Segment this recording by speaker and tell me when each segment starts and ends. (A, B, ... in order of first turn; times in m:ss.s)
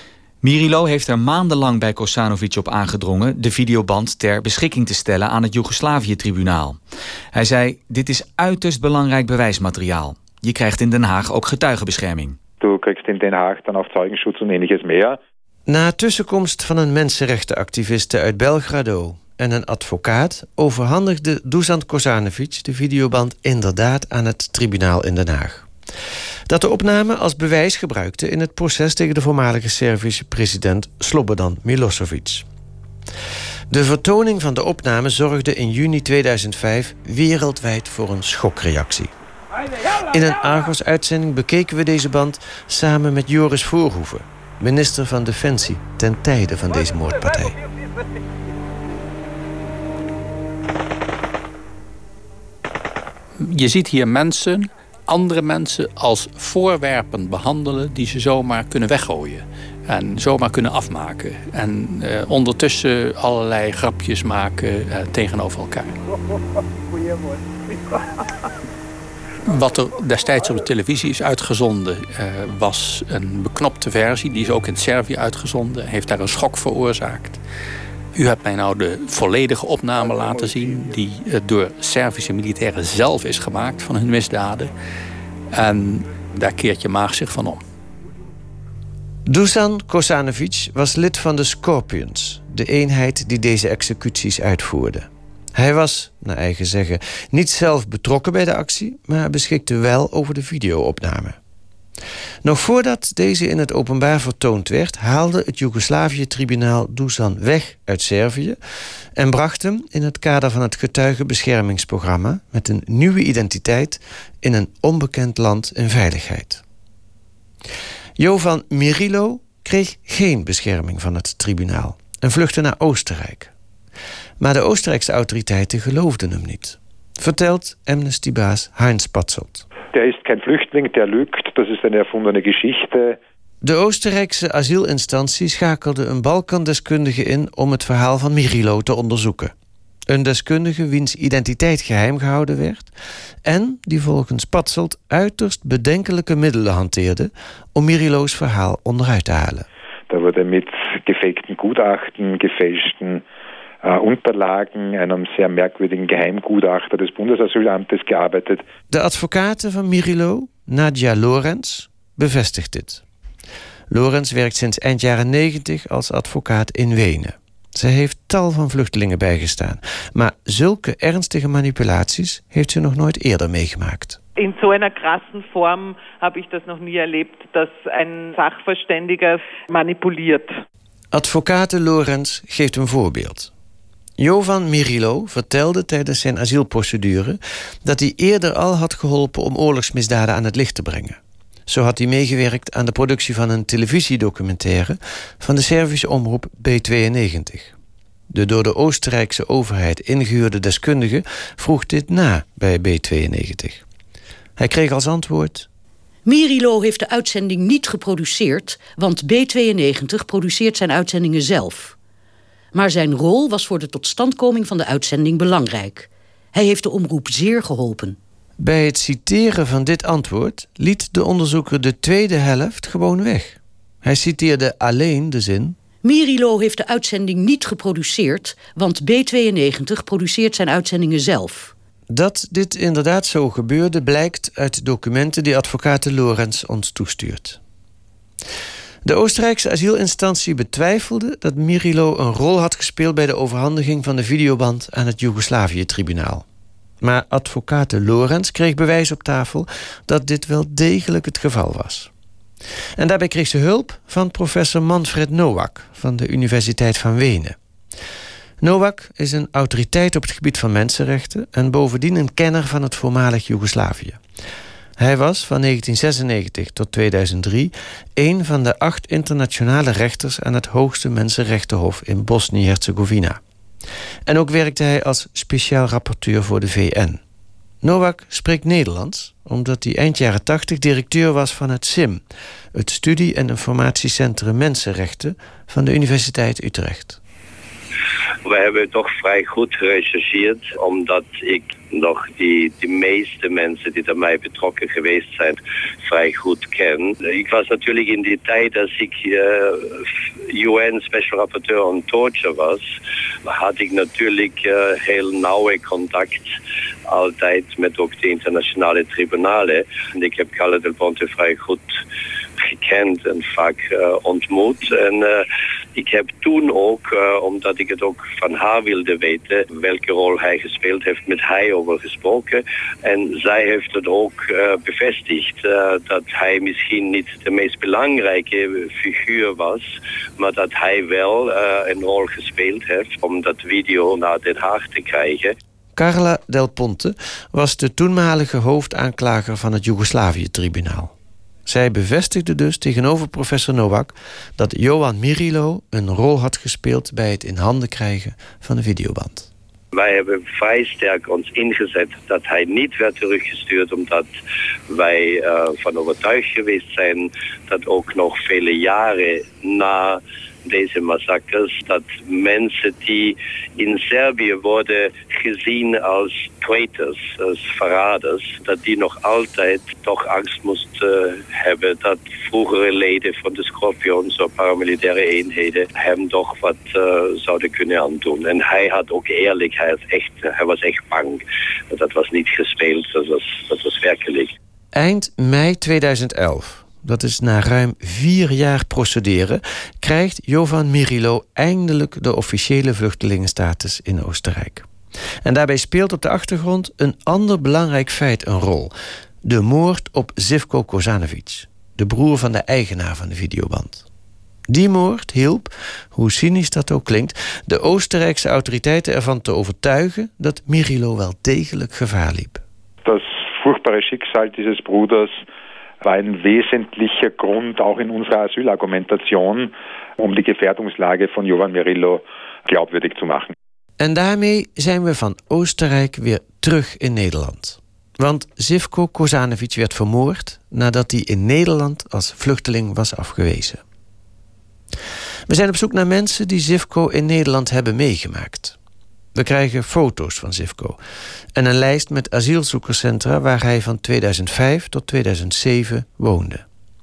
0:00.4-0:06.8 A
0:07.3-0:12.4 A
0:12.6-0:15.2 B
0:15.7-0:25.7 C
0:26.5-0:32.5 C
0:33.7-0:39.1 C
0:39.9-0:47.6 C
0:53.4-1:06.0 D
1:09.5-1:17.4 D
1:18.2-1:24.7 D
1:25.5-1:27.6 D
1:29.3-1:41.4 C
1:42.4-1:48.6 C
1:49.2-1:56.6 C
1:58.2-2:03.5 C
2:04.4-2:09.7 C
2:09.9-2:13.2 B
2:13.6-2:19.5 C
2:20.1-2:22.9 C
2:23.4-2:29.7 C
2:30.1-2:33.2 B
2:33.8-2:38.6 B
2:38.9-2:43.0 C
2:43.9-2:54.2 C
2:54.4-3:00.5 E
3:01.1-3:03.5 C
3:04.2-3:17.7 C
3:18.3-3:23.8 C
3:24.6-3:25.7 C
3:26.3-3:32.0 F
3:32.7-3:38.2 F
3:38.6-3:45.8 C
3:46.0-3:51.7 F
3:52.1-3:57.6 C
3:59.0-4:06.4 C
4:07.0-4:12.1 C
4:13.0-4:17.6 C
4:18.6-4:24.2 C
4:25.0-4:33.4 C
4:34.3-4:37.2 C
4:37.8-4:47.2 C
4:48.4-5:02.8 G
5:03.4-5:06.5 G
5:07.1-5:11.8 G
5:12.6-5:35.5 G
5:36.0-5:41.1 C
5:41.7-5:49.5 C
5:49.9-5:54.3 G
5:54.9-6:24.5 G
6:24.9-6:34.9 C
6:35.4-6:38.9 C
6:39.4-6:44.0 C
6:44.7-6:52.6 C
6:53.0-6:55.4 B
6:56.0-7:03.5 B
7:04.0-7:13.8 C
7:15.5-7:18.8 C
7:19.4-7:21.0 C
7:21.6-7:26.6 C